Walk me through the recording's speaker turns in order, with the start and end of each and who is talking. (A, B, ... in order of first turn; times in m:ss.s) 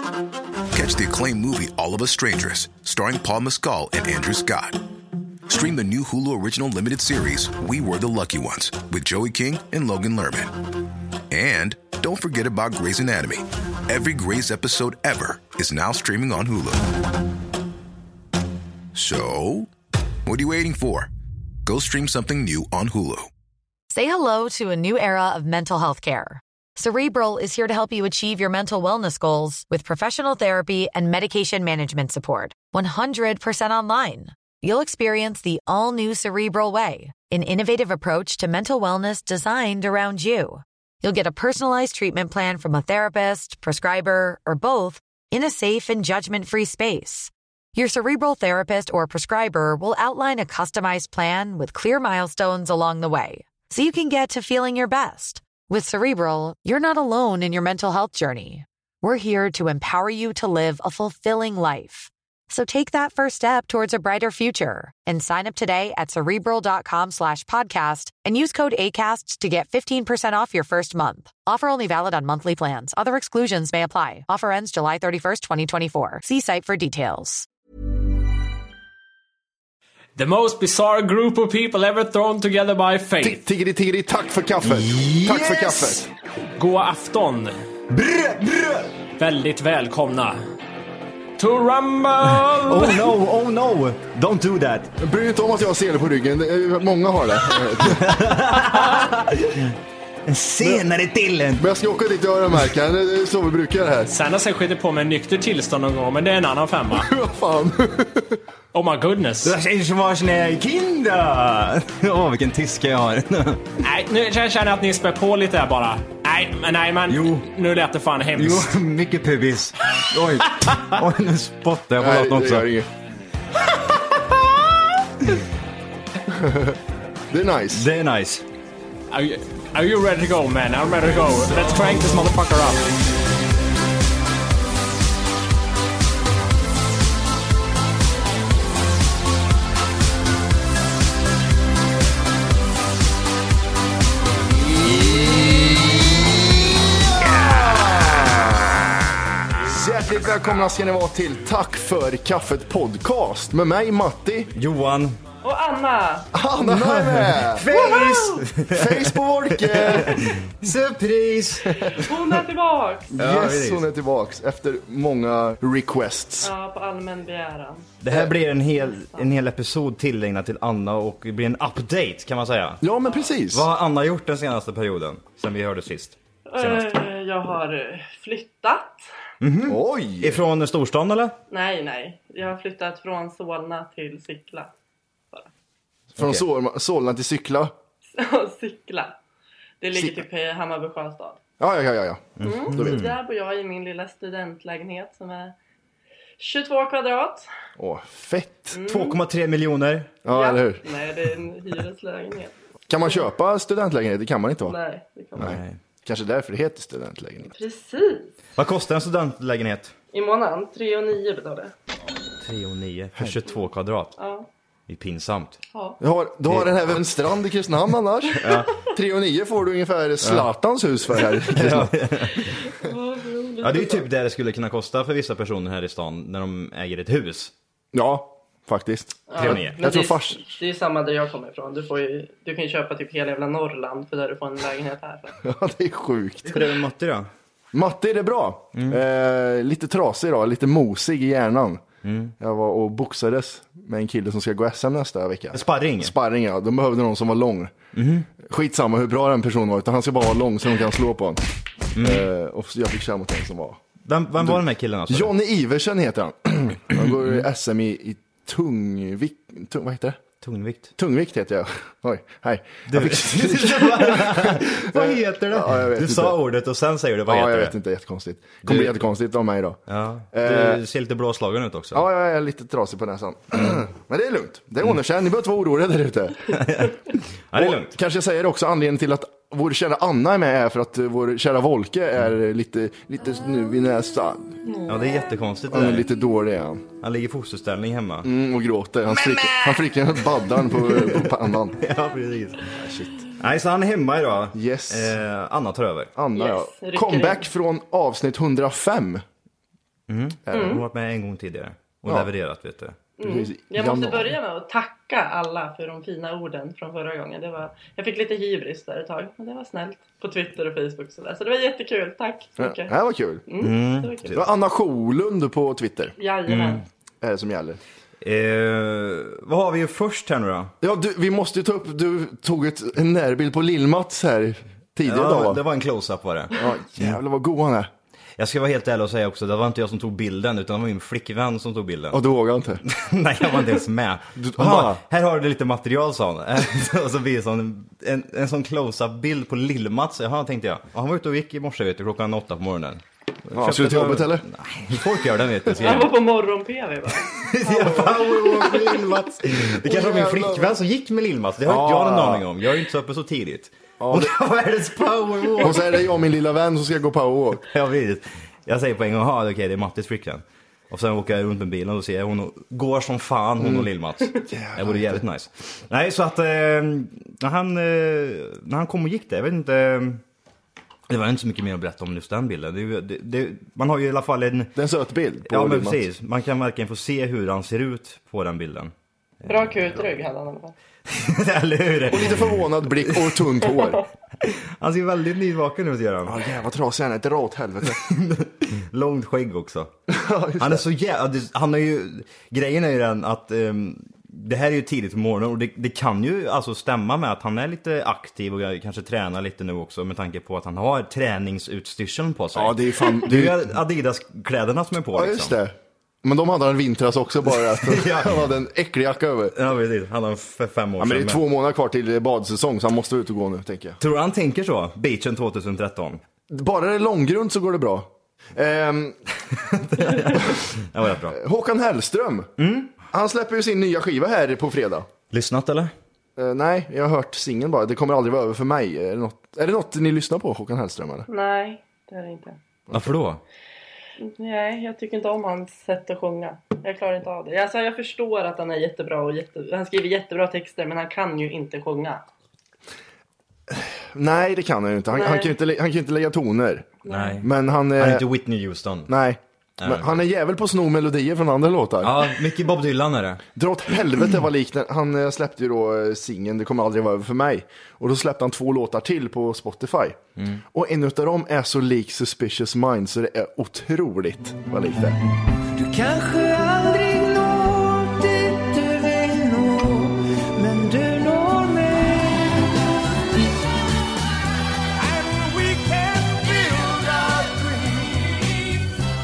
0:00.7-0:04.8 A
0:05.5-0:10.6 A
0:11.3-0:16.8 A
0:18.9-0:19.7 A
0:20.2-0:21.1 A
0:21.6-0:23.3 A
0:23.9-1:17.4 B
1:20.2-1:23.4 C
1:23.2-1:26.1 D
1:24.6-1:26.0 E
1:26.6-1:27.5 C
1:27.9-1:28.9 E
1:29.2-1:30.4 C
1:31.4-1:33.1 C
1:32.7-1:34.9 E
1:35.0-1:38.3 D
1:37.8-1:39.7 E
1:40.3-1:41.7 E
1:41.6-1:44.1 D
1:44.1-1:47.1 C
1:46.9-1:48.4 D
1:48.7-1:49.5 C
1:49.4-1:53.6 E
1:53.8-1:58.7 C
1:57.1-1:57.5 E
1:58.4-2:02.7 E
2:02.0-2:02.9 D
2:04.1-2:04.6 E
2:06.3-2:06.8 D
2:07.3-2:07.9 D
2:07.7-2:08.4 E
2:09.1-2:12.9 C
2:24.9-2:25.7 D
2:27.2-2:28.7 D
2:29.6-2:34.5 D
2:34.5-2:35.2 E
2:35.4-2:36.3 F
2:36.3-2:37.7 D
2:36.6-2:42.2 E
2:37.7-2:38.4 F
2:38.6-2:40.4 D
2:41.8-2:43.2 F
2:43.1-2:46.5 D
2:43.2-2:43.8 E
2:46.4-2:47.9 F
2:48.0-2:52.8 E
2:48.8-2:49.3 F
2:52.8-2:53.6 D
2:53.5-2:56.9 E
2:56.5-2:59.0 F
2:59.4-3:01.4 E
2:59.7-3:00.4 D
3:01.5-3:04.7 F
3:06.2-3:06.4 E
3:06.2-3:07.7 D
3:08.1-3:09.2 F
3:09.8-3:11.4 F
3:09.9-3:10.2 D
3:11.6-3:13.1 D
3:12.4-3:13.1 E
3:12.4-3:15.5 F
3:16.4-3:17.5 F
3:17.8-3:18.8 D
3:18.7-3:19.2 F
3:18.8-3:20.1 E
3:20.2-3:20.8 D
3:20.3-3:23.2 F
3:22.9-3:24.8 D
3:24.6-3:25.6 F
3:25.4-3:25.8 E
3:25.4-3:27.5 D
3:27.5-3:28.3 F
3:28.6-3:29.9 E
3:30.1-3:31.7 F
3:32.4-3:34.1 E
3:34.2-3:34.5 F
3:34.9-3:35.6 E
3:35.7-3:36.0 F
3:36.0-3:42.0 D
3:36.5-3:37.0 E
3:38.3-3:38.7 E
3:41.4-3:42.5 E
3:42.5-3:44.0 F
3:43.6-3:47.5 E
3:47.9-3:50.4 D
3:49.3-3:55.4 F
3:49.4-3:49.8 E
3:55.4-3:56.6 D
3:56.4-3:57.3 E
3:57.7-4:01.8 D
3:58.7-3:59.0 E
4:02.0-4:02.3 E
4:02.4-4:07.7 D
4:05.5-4:06.1 E
4:07.9-4:08.3 E
4:08.4-4:11.4 D
4:11.9-4:12.3 E
4:12.0-4:13.8 D
4:14.0-4:15.3 E
4:14.4-4:20.2 D
4:17.0-4:17.4 E
4:20.4-4:20.9 E
4:21.0-4:26.4 D
4:22.9-4:27.7 E
4:27.3-4:29.8 D
4:28.6-4:28.9 E
4:29.9-4:32.0 E
4:30.3-4:30.8 D
4:31.9-4:36.8 D
4:36.5-4:37.9 E
4:37.5-4:44.6 D
4:44.8-4:46.1 E
4:45.7-4:46.9 D
4:47.0-4:48.3 E
4:48.2-4:51.8 D
4:49.1-4:50.0 E
4:50.6-4:56.1 E
4:52.8-4:53.2 D
4:54.5-4:55.1 D
4:56.2-4:59.2 D
4:56.3-4:57.4 F
5:00.1-5:03.0 E
5:00.5-5:00.8 F
5:03.2-5:12.9 F
5:03.2-5:04.3 D
5:12.6-5:13.4 D
5:13.5-5:14.4 F
5:13.6-5:14.4 E
5:14.3-5:16.1 D
5:16.2-5:16.8 F
5:16.5-5:16.8 E
5:17.2-5:17.8 D
5:18.2-5:20.7 E
5:20.8-5:25.6 D
5:25.0-5:27.2 E
5:26.6-5:27.9 D
5:28.4-5:32.2 E
5:32.1-5:32.8 D
5:32.8-5:46.1 E
5:34.4-5:35.0 D
5:43.5-5:44.4 D
5:45.8-5:49.0 F
5:47.4-5:56.0 E
5:49.7-5:50.7 D
5:51.6-5:52.5 D
5:54.0-5:54.3 D
5:55.6-5:57.6 D
5:57.7-6:10.2 E
6:03.6-6:03.9 D
6:04.5-6:05.2 D
6:11.1-6:14.8 E
6:14.8-6:16.0 D
6:15.5-6:20.0 E
6:19.5-6:20.7 F
6:21.0-6:23.6 E
6:22.1-6:24.0 D
6:24.4-6:26.4 E
6:26.2-6:28.0 D
6:27.9-6:29.9 E
6:30.1-6:30.8 D
6:30.6-6:45.6 E
6:42.5-6:43.7 D
6:45.2-6:49.6 D
6:47.6-6:48.5 E
6:49.5-6:51.4 E
6:51.0-6:54.0 D
6:54.0-6:56.2 E
6:56.5-6:59.2 D
6:59.7-7:01.4 E
7:00.2-7:00.6 D
7:01.3-7:02.5 D
7:02.6-7:02.9 E
7:03.1-7:05.1 D
7:05.3-7:05.9 E
7:06.4-7:11.3 D
7:11.3-7:12.6 F
7:12.9-7:13.1 D
7:12.9-7:13.4 E
7:14.2-7:22.2 F
7:23.7-7:28.2 D
7:25.1-7:25.5 F
7:27.0-7:27.4 F
7:27.1-7:29.1 E
7:29.1-7:32.1 D
7:29.8-7:30.2 E
7:32.0-7:33.4 E
7:33.6-7:40.2 D
7:40.4-7:40.6 E
7:40.7-7:45.2 D
7:45.9-7:50.0 G
7:50.6-7:52.2 G